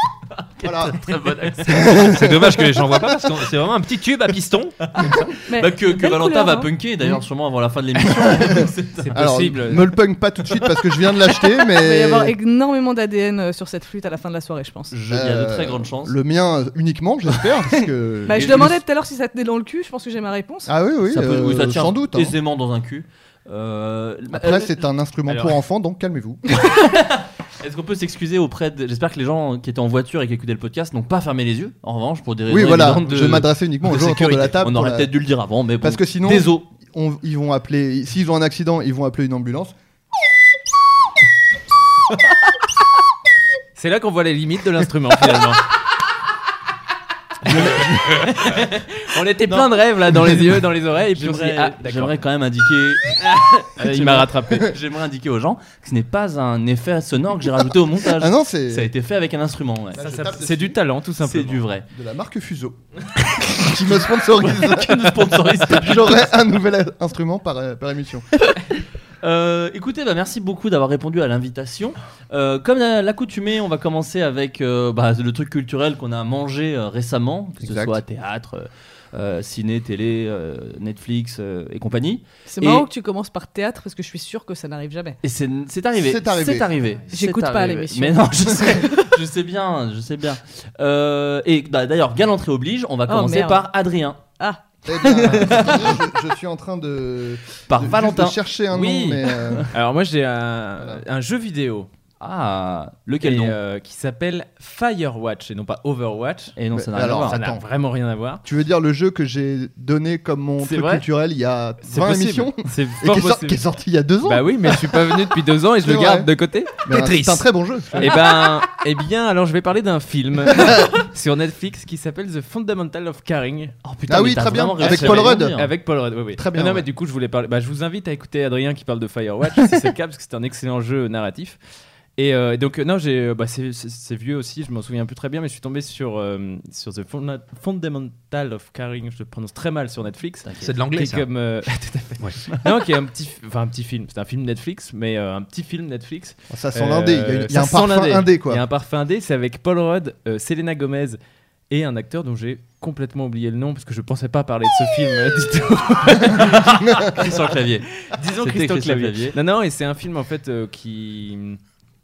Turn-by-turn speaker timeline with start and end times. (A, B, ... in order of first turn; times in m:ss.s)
0:00.6-0:02.4 A
0:00.6-0:01.0 B
0:01.7-0:02.6 B
0:01.8-0:04.8 C
0:04.9-0:09.2 A
0:05.5-0:06.7 D
0:08.2-0:12.3 B
0:09.0-0:10.0 E
0:11.6-0:14.9 D
0:14.9-0:16.2 A
0:15.1-0:18.8 B
0:18.3-0:20.7 D
0:18.3-0:18.7 A
0:20.7-0:22.4 B
0:21.1-0:24.8 A
0:24.3-0:26.6 B
0:25.3-0:25.5 E
0:26.6-0:36.6 A
0:32.5-0:35.1 B
0:35.8-0:39.7 B
0:43.8-0:45.6 E
0:47.4-0:48.2 B
0:47.5-0:52.2 E
0:51.1-1:00.1 A
0:53.2-0:54.7 E
0:58.0-0:58.9 B
0:59.9-1:00.8 B
1:00.0-1:01.6 E
1:01.2-1:01.8 A
1:01.9-1:02.8 B
1:03.3-1:06.4 A
1:03.6-1:08.2 B
1:09.2-1:22.8 A
1:17.6-1:18.0 B
1:22.5-1:25.2 D
1:25.2-1:34.2 A
1:26.0-1:26.7 B
1:27.1-1:29.1 D
1:33.1-1:33.7 D
1:34.4-1:35.7 D
1:34.8-1:39.7 B
1:35.2-1:36.0 A
1:37.7-1:39.7 A
1:39.7-1:41.9 E
1:42.2-1:43.6 A
1:43.2-1:46.6 E
1:46.6-1:47.4 A
1:46.7-1:47.7 B
1:47.1-1:48.4 E
1:48.4-1:55.2 B
1:50.6-1:51.0 E
1:51.8-1:53.6 E
1:54.2-1:56.9 E
1:55.8-1:56.3 B
1:56.8-1:58.3 B
1:56.9-1:57.4 C
1:58.0-2:03.7 E
2:03.8-2:05.7 A
2:04.1-2:05.6 B
2:04.8-2:11.6 E
2:06.4-2:06.9 B
2:12.2-2:31.2 E
2:20.4-2:20.7 A
2:20.6-2:21.3 C
2:26.5-2:28.6 B
2:31.7-2:37.2 E
2:36.3-2:39.4 A
2:36.9-2:37.2 B
2:37.9-2:41.6 E